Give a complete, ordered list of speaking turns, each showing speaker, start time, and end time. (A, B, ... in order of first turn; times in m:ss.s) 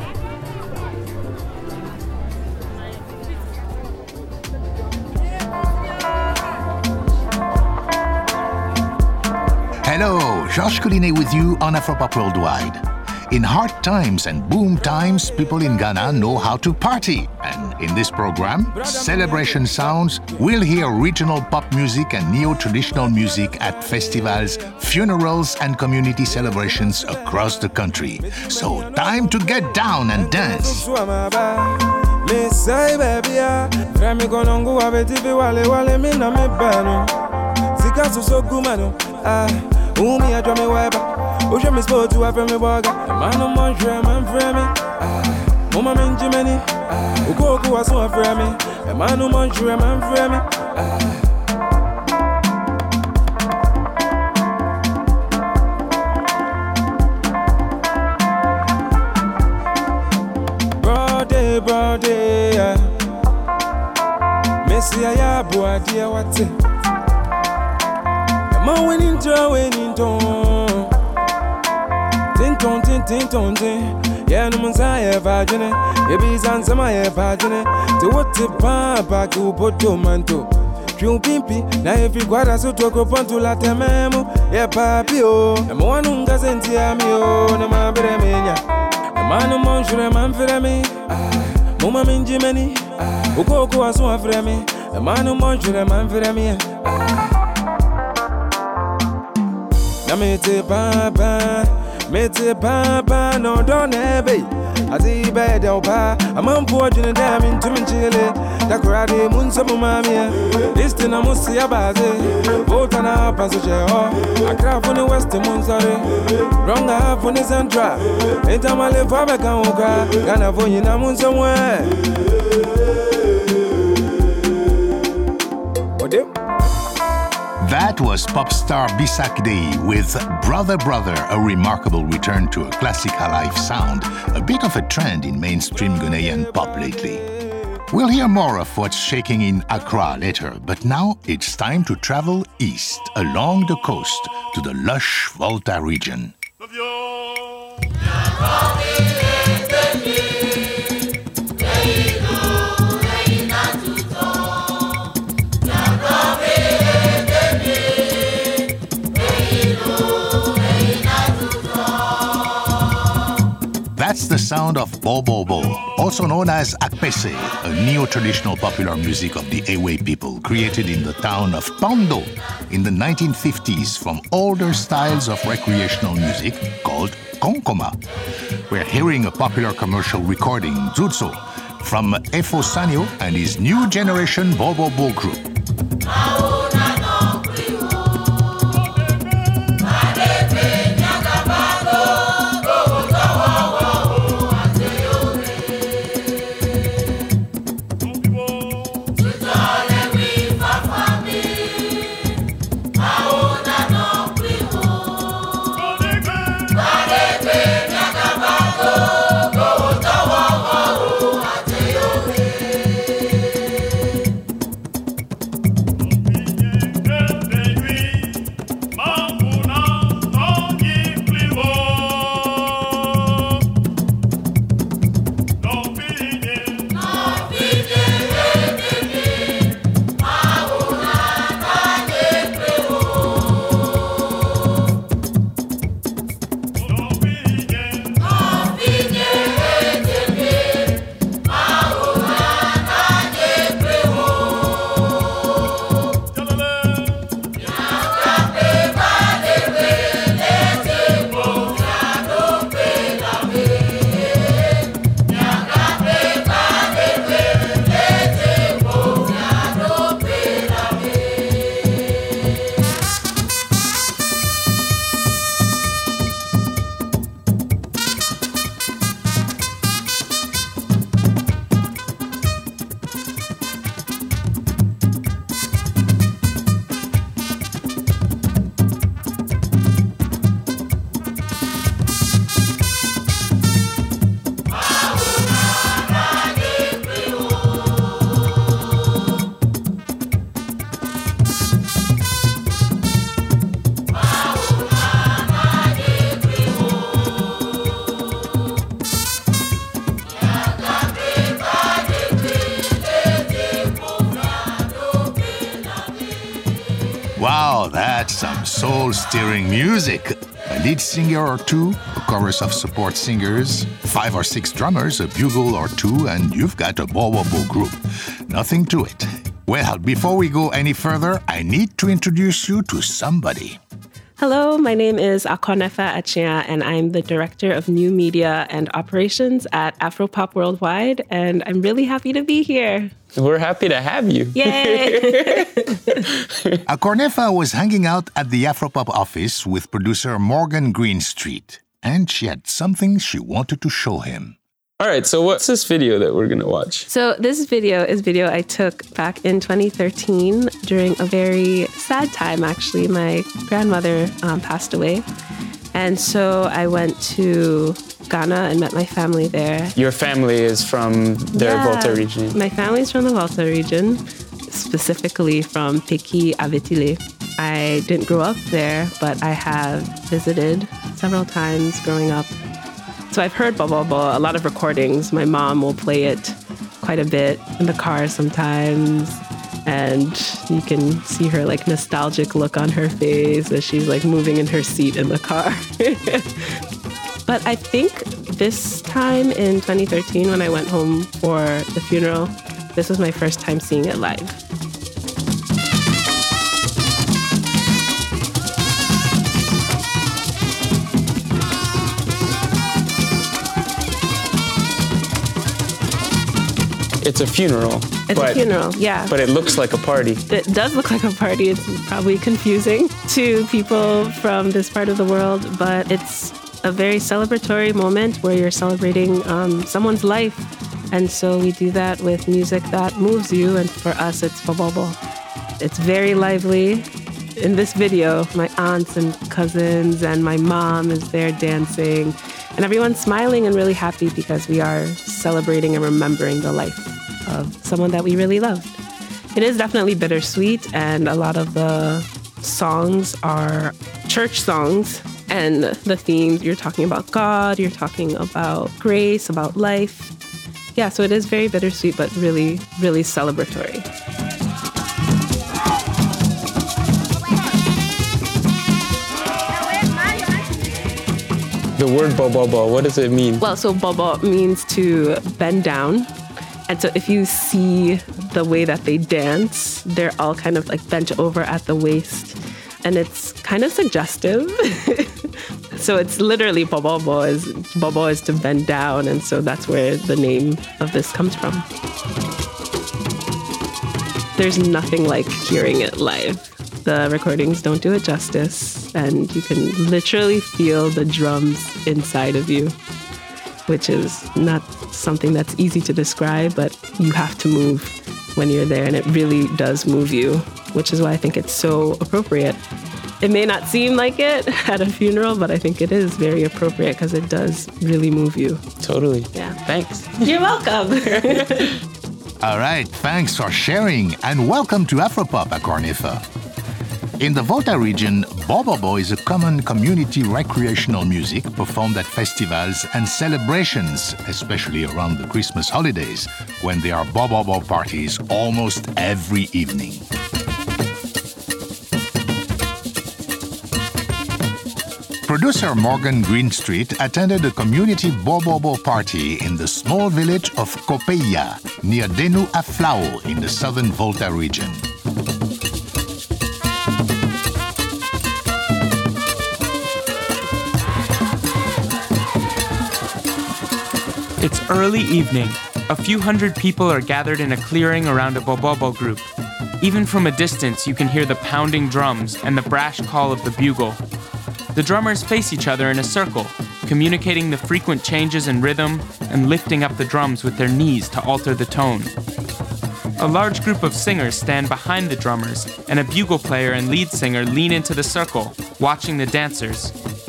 0:09.8-0:30.8 A
0:18.7-0:19.8 B
0:28.2-0:37.2 B
0:37.8-0:51.2 B
1:00.8-1:02.9 B
1:04.6-1:06.6 B
1:08.5-1:10.9 B
1:12.4-1:28.6 B
1:29.2-1:37.3 B
1:40.0-2:02.0 B
2:06.0-2:06.3 B
2:07.6-2:17.2 A
2:16.1-2:17.0 B
2:17.9-2:26.4 A
2:44.0-2:58.0 A
2:58.7-3:05.5 A
5:07.4-5:23.8 A
5:24.4-5:33.1 C
5:33.3-5:36.8 D
5:34.6-5:36.2 C
5:36.9-5:44.6 A
5:45.0-5:47.1 D
5:47.1-5:55.3 C
5:55.9-5:59.9 C
6:00.0-6:02.6 D
6:01.5-6:12.5 C
6:13.3-6:26.5 C
6:27.5-6:34.6 C
6:47.2-6:48.6 D
6:48.3-6:49.4 C
6:49.3-6:50.4 D
6:50.5-7:05.2 C
7:05.8-7:19.0 C
7:19.6-7:30.3 C
7:31.0-7:34.1 C
7:42.0-7:43.6 D
7:43.6-7:46.3 C
7:46.9-8:01.8 C
8:04.6-8:13.0 C
8:13.9-8:22.8 C
8:23.4-8:28.8 C
8:29.0-8:30.6 D
8:29.5-8:29.8 C
8:30.4-8:31.9 C
8:31.4-8:31.8 D
8:32.6-8:36.4 A
8:37.4-8:50.2 A
8:55.5-9:05.0 A
9:14.6-9:19.5 E
9:20.0-9:24.2 E
9:24.9-9:32.3 E
9:33.4-9:40.1 E